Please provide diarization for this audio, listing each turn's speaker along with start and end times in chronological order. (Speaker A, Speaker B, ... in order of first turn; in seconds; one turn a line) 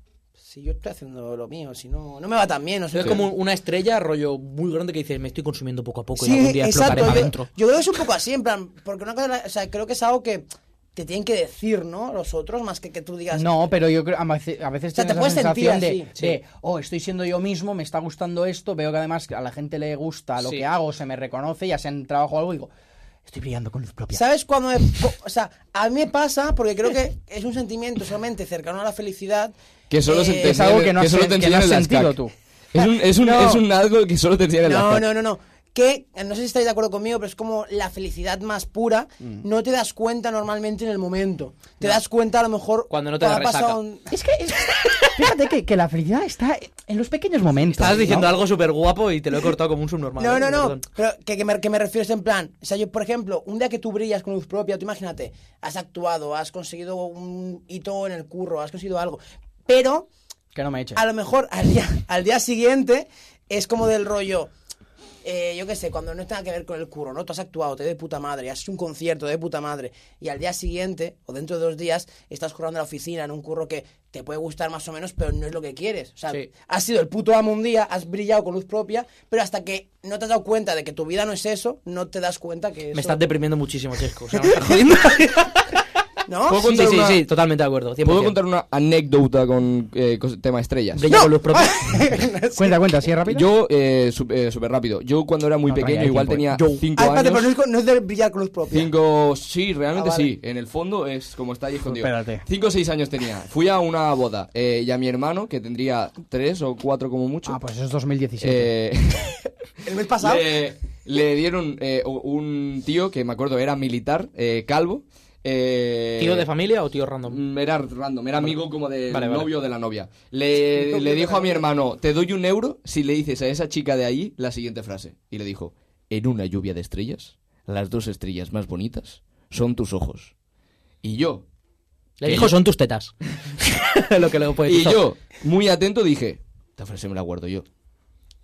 Speaker A: 0.4-3.2
Speaker B: 2.9-7.5
Speaker A: 6.2-13.6
Speaker C: 13.3-22.7
Speaker A: 14.9-16.1
Speaker C: 23.2-24.2
Speaker A: 24.1-29.5
Speaker D: 29.9-32.1
Speaker A: 30.1-30.7
Speaker C: 30.4-32.3
Speaker D: 32.7-35.1
Speaker A: 32.8-33.6
Speaker A: 34.6-44.1
Speaker B: 42.9-43.8
Speaker C: 44.1-48.4
Speaker B: 47.7-50.8
Speaker A: 50.2-60.1
Speaker C: 60.5-61.0
Speaker A: 60.9-64.5
Speaker A: 65.2-83.2
Speaker B: 82.9-85.7
Speaker A: 86.3-86.6
Speaker D: 86.5-87.2
Speaker B: 86.5-88.3
Speaker D: 88.0-91.2
Speaker B: 90.9-91.8
Speaker A: 91.1-92.8
Speaker C: 92.5-93.5
Speaker D: 93.3-97.5
Speaker C: 95.7-96.8
Speaker A: 97.0-98.9
Speaker D: 98.7-107.6
Speaker A: 99.9-100.3
Speaker C: 101.8-102.4
Speaker C: 107.5-108.7
Speaker D: 108.4-109.5
Speaker A: 109.8-110.5
Speaker D: 110.1-116.5
Speaker B: 116.2-117.4
Speaker D: 117.3-130.3
Speaker B: 119.1-119.5
Speaker A: 120.7-121.6
Speaker D: 131.0-131.4
Speaker B: 132.2-135.0
Speaker D: 132.2-132.5
Speaker D: 134.7-137.7